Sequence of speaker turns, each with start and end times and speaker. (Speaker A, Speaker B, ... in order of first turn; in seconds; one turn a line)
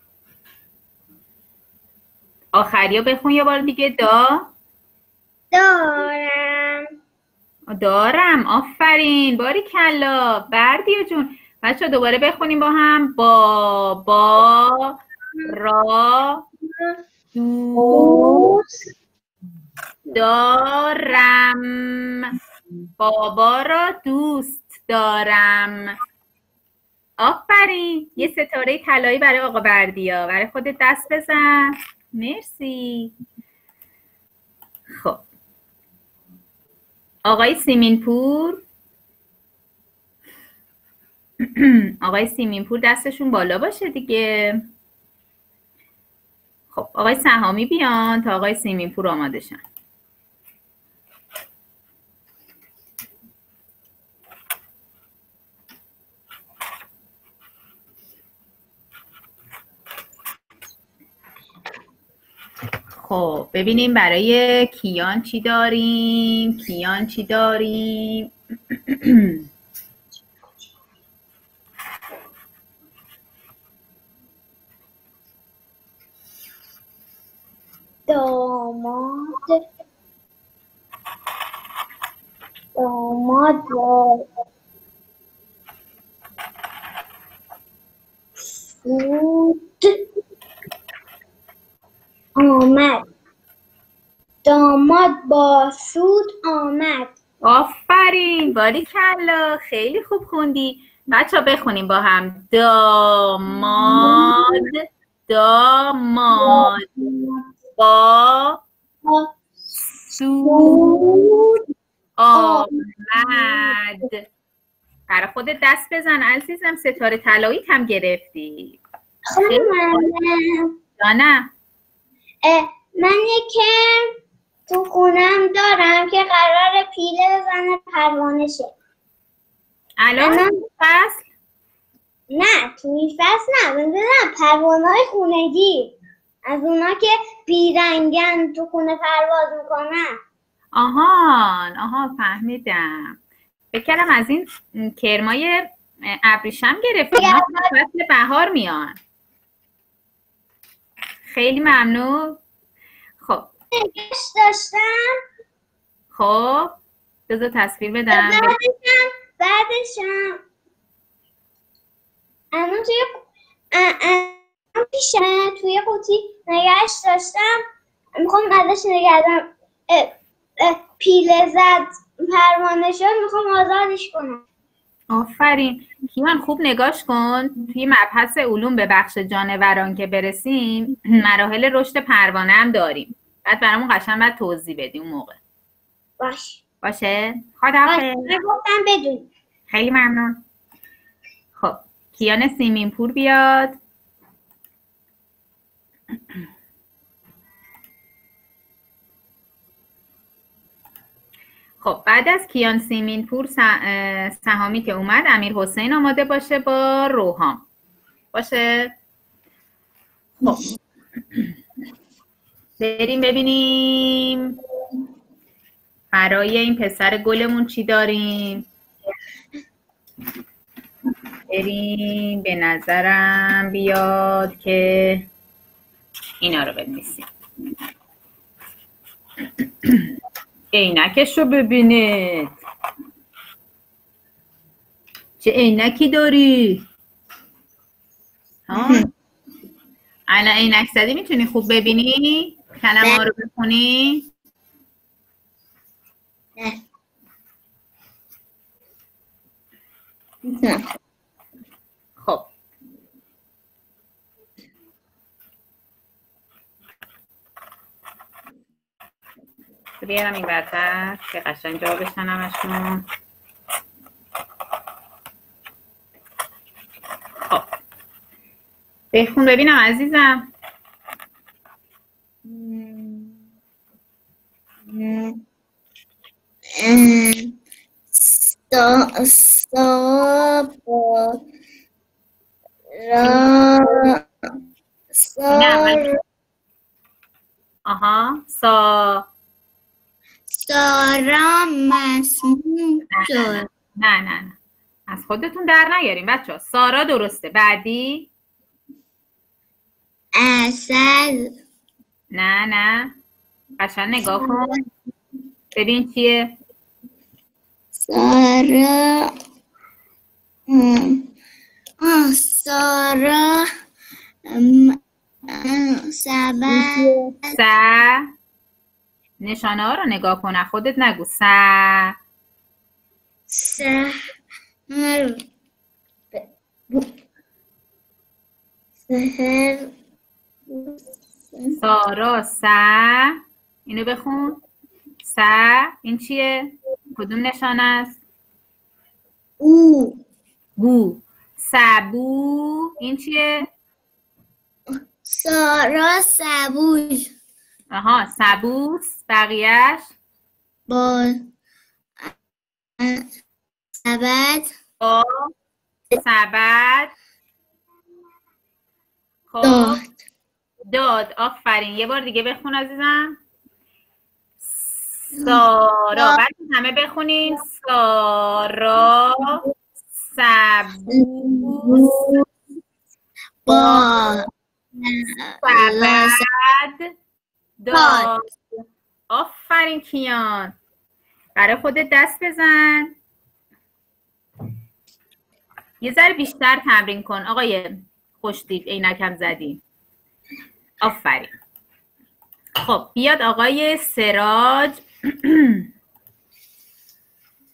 Speaker A: 2.5-4.5
Speaker B: 5.5-6.8
Speaker A: 7.7-16.4
Speaker A: 17.3-18.5
Speaker B: 17.8-18.7
Speaker A: 20.1-22.3
Speaker A: 23.0-25.9
Speaker A: 27.2-33.1
Speaker A: 34.9-35.2
Speaker A: 37.2-38.6
Speaker A: 41.4-44.6
Speaker A: 46.7-49.6
Speaker A: 63.0-68.3
Speaker A: 68.9-69.4
Speaker B: 78.1-79.6
Speaker B: 82.8-84.2
Speaker B: 88.7-90.0
Speaker B: 92.3-93.0
Speaker B: 94.4-97.1
Speaker A: 97.4-106.9
Speaker B: 103.8-104.7
Speaker B: 106.3-107.4
Speaker A: 107.8-108.6
Speaker B: 109.0-109.3
Speaker A: 109.9-111.0
Speaker B: 110.4-111.6
Speaker A: 112.2-114.2
Speaker B: 112.3-113.8
Speaker A: 115.1-118.8
Speaker B: 119.3-120.7
Speaker A: 119.5-120.1
Speaker A: 121.0-121.5
Speaker B: 122.4-124.2
Speaker B: 124.7-128.7
Speaker A: 130.0-131.3
Speaker B: 130.2-130.6
Speaker B: 132.3-140.2
Speaker A: 140.7-143.2
Speaker A: 143.7-149.0
Speaker B: 147.1-147.7
Speaker A: 151.3-152.4
Speaker A: 153.2-153.5
Speaker B: 153.7-155.2
Speaker A: 156.1-156.8
Speaker A: 157.3-158.6
Speaker B: 158.1-160.4
Speaker B: 162.5-167.6
Speaker B: 168.2-174.4
Speaker A: 175.1-185.4
Speaker B: 186.2-186.6
Speaker A: 186.8-188.3
Speaker B: 187.8-189.3
Speaker A: 189.7-190.4
Speaker A: 191.6-193.8
Speaker A: 201.8-207.7
Speaker A: 208.3-208.9
Speaker A: 210.4-210.7
Speaker A: 212.8-214.6
Speaker A: 216.1-218.7
Speaker A: 221.5-225.2
Speaker A: 226.4-227.2
Speaker A: 229.8-230.1
Speaker A: 230.7-232.6
Speaker A: 235.4-236.8
Speaker A: 238.7-239.1
Speaker A: 240.3-244.3
Speaker A: 252.2-252.5
Speaker A: 260.0-263.0
Speaker A: 269.1-270.5
Speaker B: 272.5-273.2
Speaker B: 274.9-275.3
Speaker B: 276.8-277.3
Speaker B: 278.7-280.3
Speaker B: 283.0-284.1
Speaker B: 285.2-286.0
Speaker A: 285.5-286.0
Speaker A: 287.9-289.2
Speaker B: 290.6-293.6
Speaker A: 293.1-294.6
Speaker A: 295.1-298.3
Speaker B: 300.4-301.3
Speaker A: 302.3-303.1
Speaker A: 303.8-304.8
Speaker A: 305.7-306.5
Speaker B: 308.1-309.0
Speaker B: 310.7-311.1
Speaker B: 312.0-313.4
Speaker B: 314.6-314.9
Speaker B: 315.6-317.1
Speaker A: 316.7-318.3
Speaker A: 319.4-322.1
Speaker B: 323.5-324.1
Speaker B: 324.9-325.3
Speaker B: 329.1-329.8
Speaker A: 331.8-334.6
Speaker A: 335.2-338.2
Speaker B: 339.6-340.1
Speaker A: 340.8-343.7
Speaker B: 345.3-347.2
Speaker A: 347.9-350.1
Speaker B: 350.9-351.3
Speaker B: 354.0-354.6
Speaker A: 355.0-355.5
Speaker A: 356.1-357.1
Speaker A: 359.5-360.0
Speaker A: 360.9-363.4
Speaker A: 364.7-369.6
Speaker A: 370.2-372.4
Speaker A: 373.7-374.3
Speaker B: 373.7-374.2
Speaker A: 375.6-377.1
Speaker A: 377.8-378.4
Speaker A: 379.3-380.7
Speaker A: 381.6-383.1
Speaker A: 386.0-389.8
Speaker A: 391.0-391.5
Speaker A: 392.8-395.8